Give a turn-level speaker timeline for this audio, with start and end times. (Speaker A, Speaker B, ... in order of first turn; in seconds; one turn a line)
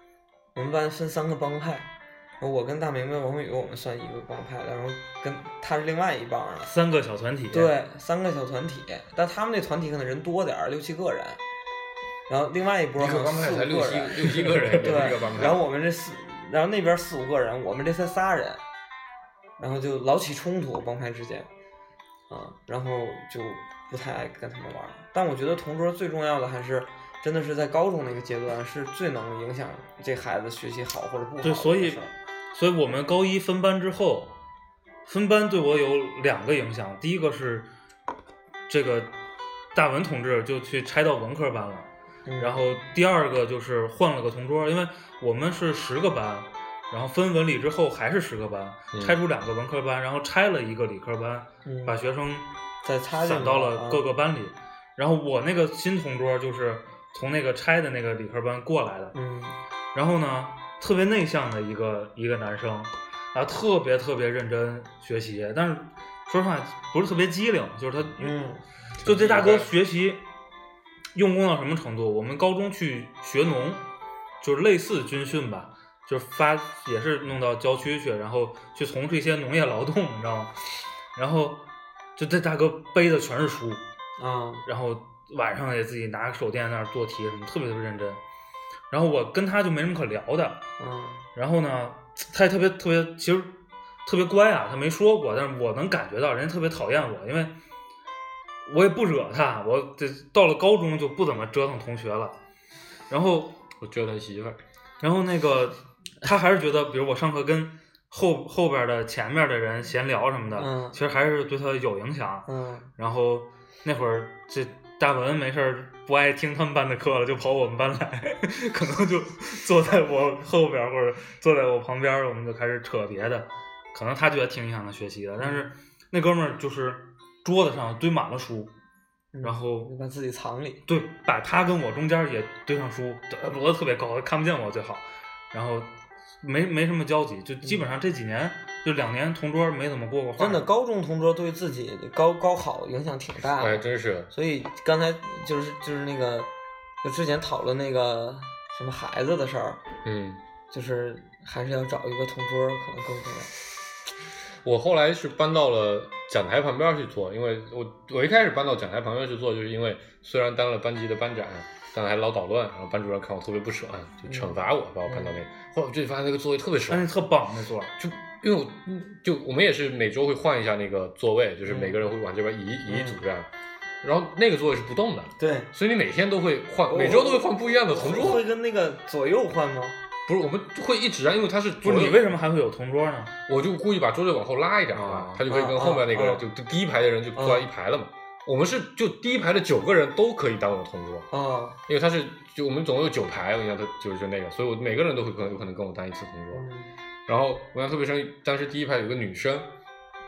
Speaker A: 0.6-1.9
Speaker A: 2.4-6.7
Speaker B: 6.7-7.7
Speaker A: 7.5-11.4
Speaker A: 12.3-18.6
Speaker C: 13.0-15.6
Speaker B: 14.6-14.9
Speaker A: 19.6-21.5
Speaker A: 22.3-32.1
Speaker B: 31.4-32.0
Speaker B: 32.5-34.4
Speaker B: 35.0-37.7
Speaker B: 38.7-39.2
Speaker B: 39.7-41.9
Speaker A: 42.3-42.7
Speaker B: 42.4-52.5
Speaker C: 48.9-49.2
Speaker A: 51.6-52.0
Speaker A: 52.8-54.0
Speaker B: 53.2-59.1
Speaker A: 59.1-59.6
Speaker B: 59.9-68.3
Speaker A: 68.2-68.6
Speaker C: 69.0-69.7
Speaker B: 69.0-70.2
Speaker B: 71.1-73.9
Speaker B: 74.4-80.5
Speaker B: 81.2-81.7
Speaker B: 82.2-83.8
Speaker A: 84.2-84.7
Speaker B: 84.7-88.2
Speaker B: 88.9-90.7
Speaker A: 90.8-91.3
Speaker B: 91.3-97.5
Speaker B: 98.7-102.4
Speaker B: 103.1-103.6
Speaker C: 103.8-104.6
Speaker B: 105.0-128.7
Speaker A: 110.6-111.0
Speaker A: 112.5-112.9
Speaker A: 125.4-125.7
Speaker A: 129.3-130.8
Speaker B: 129.4-129.9
Speaker B: 130.9-140.7
Speaker A: 140.4-146.5
Speaker C: 143.6-144.3
Speaker A: 147.0-149.8
Speaker C: 150.1-150.4
Speaker A: 150.7-153.5
Speaker C: 154.6-167.1
Speaker A: 164.3-165.4
Speaker B: 166.9-167.9
Speaker C: 168.0-173.5
Speaker A: 171.7-172.0
Speaker A: 172.9-173.2
Speaker C: 174.0-178.4
Speaker A: 175.4-175.7
Speaker A: 176.8-180.0
Speaker C: 180.3-182.3
Speaker B: 181.8-183.3
Speaker C: 183.5-191.3
Speaker A: 184.9-186.5
Speaker A: 187.4-187.7
Speaker A: 191.3-191.8
Speaker C: 191.9-196.7
Speaker A: 196.5-196.9
Speaker C: 197.3-199.7